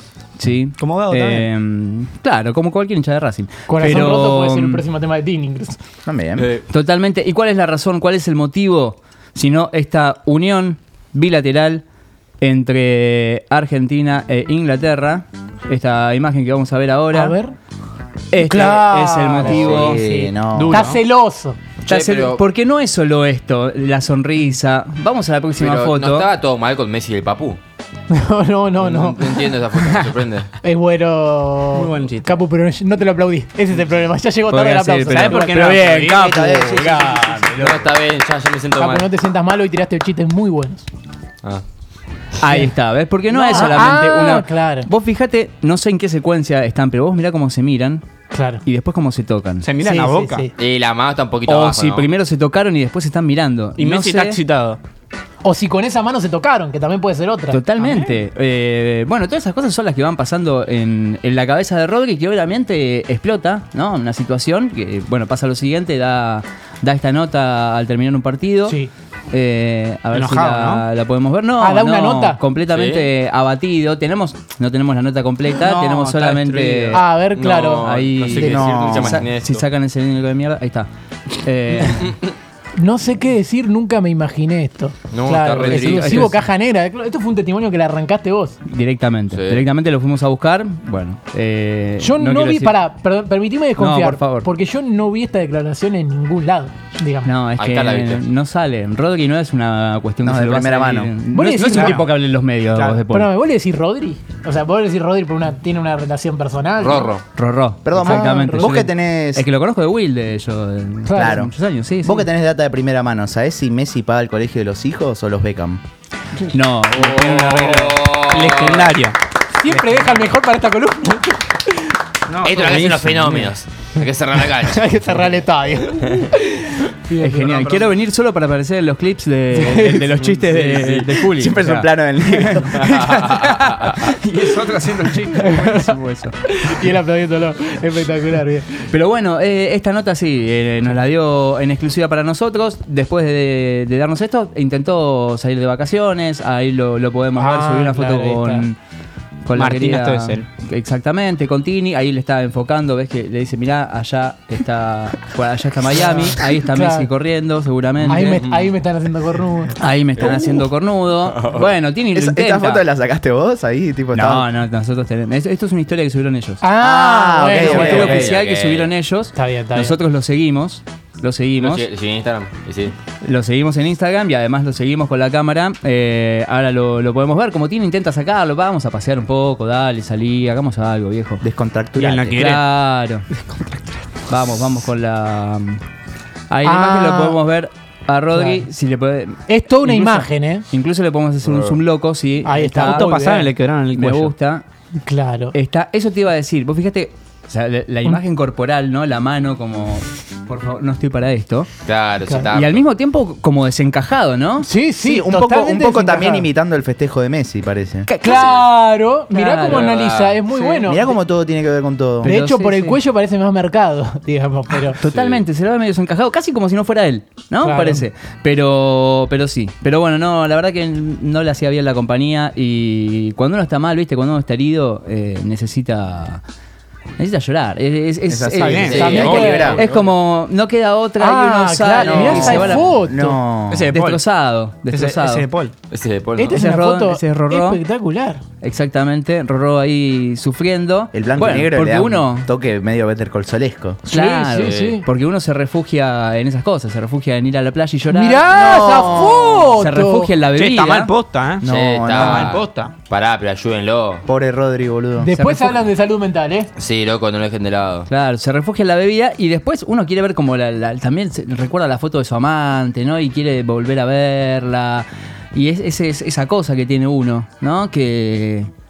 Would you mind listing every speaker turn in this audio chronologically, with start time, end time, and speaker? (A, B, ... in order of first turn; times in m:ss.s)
0:00.4-0:04.8 A
0:00.8-0:01.5 B
0:03.7-0:05.8 C
0:06.0-0:06.5 D
0:06.4-0:06.6 E
0:06.7-0:11.8 A
0:12.4-0:17.4 A
0:17.1-0:17.5 C
0:18.3-0:20.0 A
0:18.4-0:21.6 C
0:19.4-0:20.8 D
0:19.5-0:19.7 E
0:20.5-0:21.0 B
0:21.8-0:22.4 E
0:21.9-0:26.3 A
0:25.6-0:27.6 E
0:28.1-0:35.8 C
0:28.8-0:30.5 E
0:31.7-0:32.3 B
0:34.5-0:36.6 A
0:35.1-0:37.8 B
0:36.0-0:37.8 D
0:37.6-0:39.1 E
0:38.8-0:40.8 C
0:42.4-0:48.0 A
0:42.4-0:42.7 C
0:43.3-0:44.9 C
0:48.3-0:48.6 C
0:48.6-0:49.7 A
0:49.6-0:50.5 B
0:49.8-0:50.5 C
0:50.6-0:52.1 E
0:51.4-0:54.4 A
0:53.8-0:54.8 B
0:55.4-0:58.0 C
0:57.5-1:08.8 A
1:09.3-1:17.0 A
1:10.1-1:10.8 B
1:11.6-1:12.4 C
1:12.7-1:13.1 E
1:15.6-1:17.0 B
1:16.9-1:17.9 C
1:17.3-1:19.6 E
1:17.8-1:20.9 A
1:18.3-1:19.2 D
1:21.4-1:22.1 A
1:22.8-1:28.6 C
1:25.1-1:26.3 E
1:25.6-1:26.4 A
1:28.6-1:32.8 A
1:29.3-1:29.6 E
1:32.0-1:37.3 C
1:33.8-1:34.5 A
1:37.2-1:43.3 A
1:37.6-1:38.2 E
1:40.2-1:41.1 D
1:41.3-1:42.0 C
1:41.7-1:42.0 B
1:42.7-1:43.0 B
1:43.1-1:47.1 C
1:46.8-1:47.2 E
1:47.3-1:52.3 A
1:47.8-1:49.4 D
1:47.9-1:48.8 C
1:51.0-1:51.4 C
1:51.1-1:55.8 D
1:56.5-1:57.9 A
1:56.9-1:58.9 E
1:57.5-1:59.2 B
1:59.5-2:02.0 C
2:02.3-2:03.2 B
2:02.4-2:04.8 E
2:04.6-2:07.9 C
2:07.2-2:16.3 A
2:09.5-2:10.3 C
2:10.5-2:11.1 E
2:11.3-2:13.0 D
2:12.8-2:14.0 E
2:15.3-2:18.9 C
2:18.9-2:28.8 A
2:27.3-2:28.6 C
2:29.4-2:38.4 A
2:29.5-2:30.4 B
2:35.9-2:37.1 C
2:38.0-2:39.8 C
2:38.2-2:38.7 E
2:39.8-2:42.9 A
2:40.2-2:40.5 E
2:41.3-2:41.6 E
2:42.1-2:44.5 D
2:44.1-2:46.6 A
2:46.6-2:48.3 C
2:46.8-2:48.3 D
2:47.6-2:51.9 A
2:47.8-2:48.9 E
2:49.3-2:50.0 C
2:51.6-2:52.9 E
2:53.2-3:01.4 A
3:01.4-3:02.4 D
3:02.0-3:02.6 B
3:02.3-3:03.2 A
3:03.5-3:04.0 B
3:04.3-3:05.8 A
3:06.5-3:13.0 A
3:06.6-3:07.4 C
3:08.3-3:08.6 C
3:09.5-3:10.6 C
3:11.5-3:11.7 E
3:12.4-3:13.5 C
3:12.7-3:14.3 B
3:13.9-3:14.6 A
3:15.0-3:15.6 C
3:15.5-3:21.7 A
3:21.8-3:22.8 E
3:22.5-3:24.7 A
3:24.6-3:26.5 C
3:25.0-3:28.1 D
3:28.1-3:28.6 A
3:28.2-3:31.2 C
3:29.3-3:29.9 A
3:29.7-3:30.4 E
3:30.5-3:30.9 A
3:30.8-3:32.4 D
3:32.2-3:33.0 A
3:32.2-3:35.0 C
3:34.9-3:46.4 A
3:35.0-3:35.4 E
3:37.6-3:38.0 C
3:47.2-3:53.0 A
3:48.3-3:49.9 D
3:48.5-3:49.6 B
3:48.8-3:50.1 E
3:48.9-3:49.7 C
3:51.2-3:53.4 C
3:52.0-3:53.9 D
3:53.7-3:54.2 B
3:53.7-3:55.4 A
3:54.9-3:55.7 B
3:55.9-3:56.6 E
3:56.4-3:58.4 C
3:56.5-3:57.8 A
3:58.6-4:02.5 A
4:01.1-4:04.0 D
4:04.1-4:05.0 C
4:04.1-4:08.8 A
4:04.6-4:05.0 E
4:08.1-4:10.3 C
4:08.5-4:09.7 D
4:09.7-4:11.1 A
4:10.5-4:11.6 B
4:11.6-4:12.6 D
4:11.6-4:14.2 E
4:12.2-4:12.9 B
4:14.2-4:15.3 D
4:15.2-4:16.7 C
4:15.3-4:15.8 A
4:16.8-4:18.1 E
4:18.1-4:28.7 A